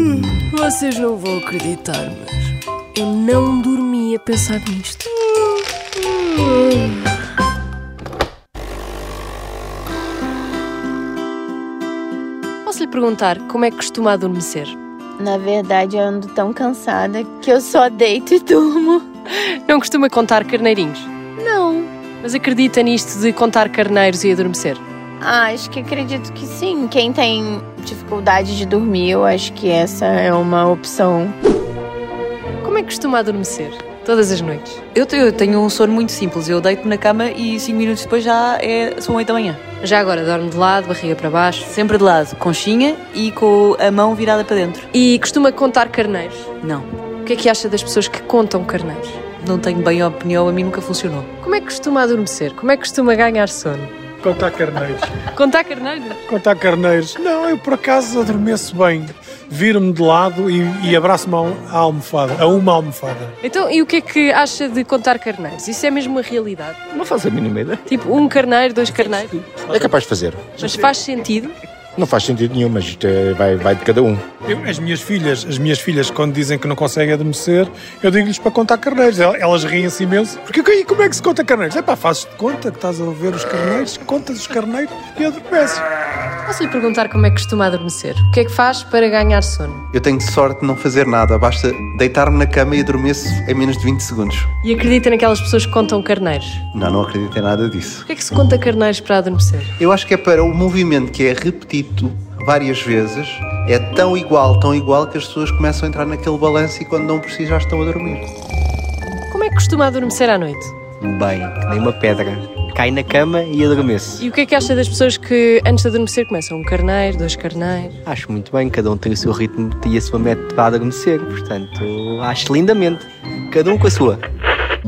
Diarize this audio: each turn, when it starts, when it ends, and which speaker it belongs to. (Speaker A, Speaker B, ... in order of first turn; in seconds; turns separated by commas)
Speaker A: 0.4-5.1, Speaker A: 12.6-14.7, Speaker B: 15.4-19.0, Speaker A: 19.4-24.8, Speaker B: 25.4-31.3, Speaker A: 32.6-34.8, Speaker C: 34.9-39.6, Speaker A: 39.8-41.7, Speaker C: 41.7-44.9, Speaker A: 44.9-46.5, Speaker C: 46.6-46.9, Speaker A: 47.2-49.2, Speaker C: 49.4-51.3, Speaker A: 51.4-53.9, Speaker D: 54.2-55.1, Speaker A: 55.1-56.2, Speaker D: 56.3-63.3, Speaker A: 63.4-66.8, Speaker E: 66.9-67.8, Speaker A: 67.9-69.4, Speaker E: 69.6-70.6, Speaker A: 70.6-71.5, Speaker E: 72.0-74.2, Speaker D: 74.4-85.8, Speaker A: 86.5-89.8, Speaker F: 89.9-94.5, Speaker A: 94.6-96.6, Speaker F: 96.7-98.0, Speaker A: 98.1-99.7, Speaker F: 99.8-108.2, Speaker A: 109.3-110.7, Speaker G: 111.1-114.2, Speaker A: 114.2-118.0, Speaker G: 118.0-124.2